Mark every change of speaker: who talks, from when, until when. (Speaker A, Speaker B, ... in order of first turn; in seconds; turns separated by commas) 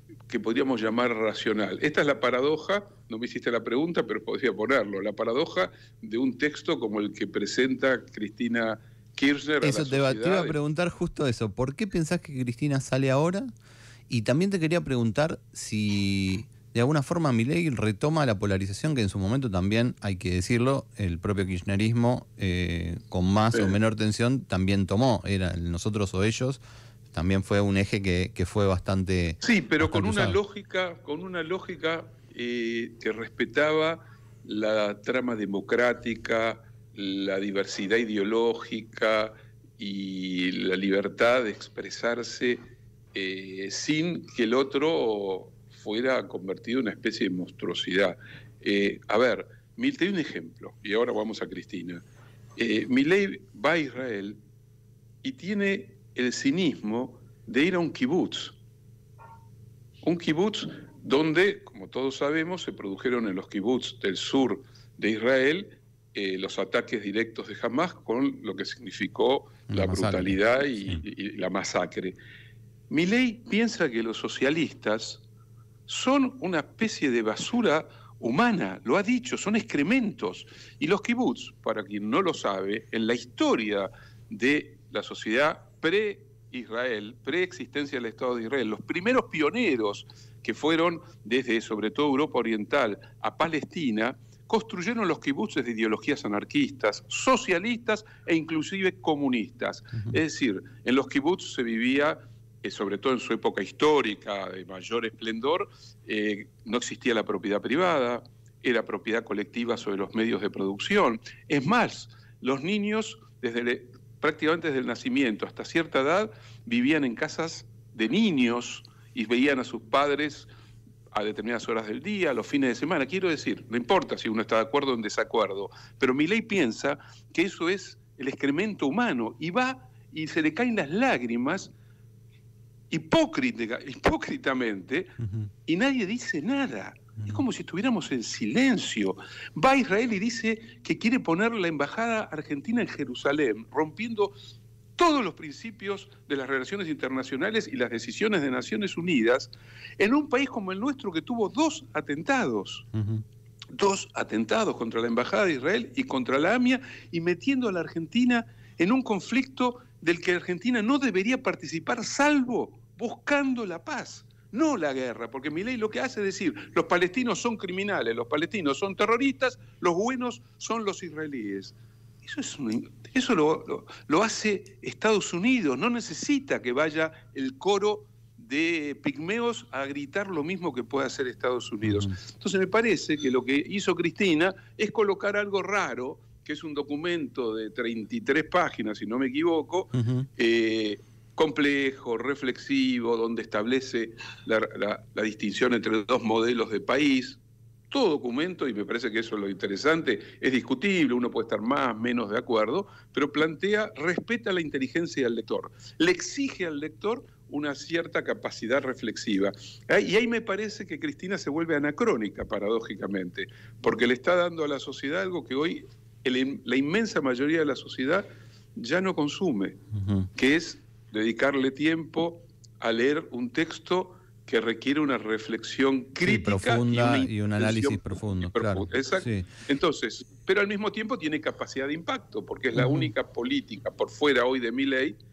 Speaker A: 0.3-10.6, Speaker B: 9.6-13.5, Speaker B: 14.1-30.4, Speaker A: 29.4-52.0, Speaker A: 52.6-54.4, Speaker A: 55.2-58.6, Speaker A: 60.0-72.2, Speaker B: 69.7-71.0, Speaker A: 72.9-75.2, Speaker A: 75.9-120.5, Speaker A: 121.1-131.7, Speaker A: 132.9-135.2, Speaker A: 135.7-144.3, Speaker A: 145.0-152.9, Speaker B: 153.0-153.2, Speaker A: 153.7-218.2, Speaker B: 181.8-182.2, Speaker B: 190.0-190.3, Speaker A: 218.8-219.8, Speaker B: 219.9-220.3, Speaker A: 220.4-235.2, Speaker B: 226.2-229.5, Speaker B: 232.8-233.1